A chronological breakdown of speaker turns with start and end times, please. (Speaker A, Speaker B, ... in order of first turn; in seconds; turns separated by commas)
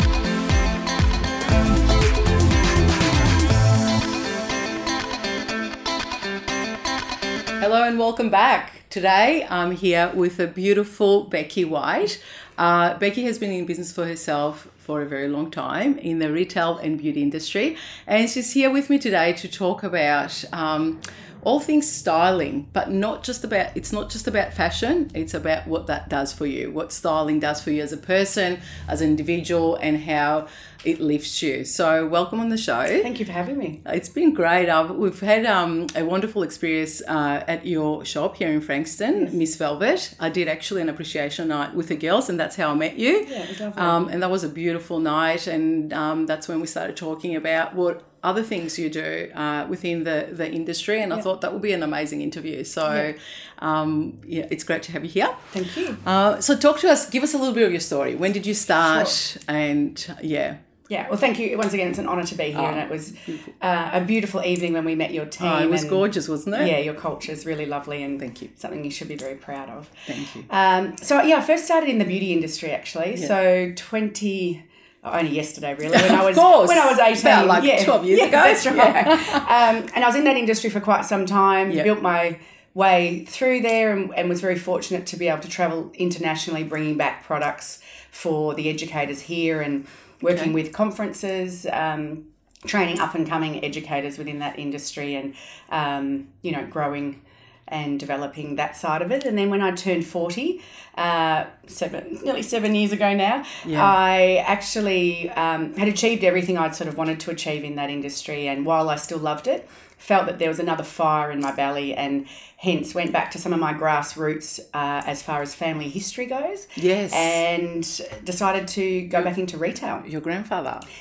Speaker A: 7.6-33.1, Speaker B: 33.0-33.8, Speaker A: 33.9-60.6, Speaker B: 43.2-44.0, Speaker B: 55.5-56.0, Speaker B: 58.7-59.2, Speaker B: 60.9-69.9, Speaker A: 62.5-63.5, Speaker A: 65.4-66.8, Speaker A: 68.2-68.5, Speaker A: 70.1-70.5, Speaker B: 70.5-120.1, Speaker A: 75.9-79.5, Speaker A: 103.6-104.0, Speaker A: 116.8-117.4, Speaker A: 120.0-120.9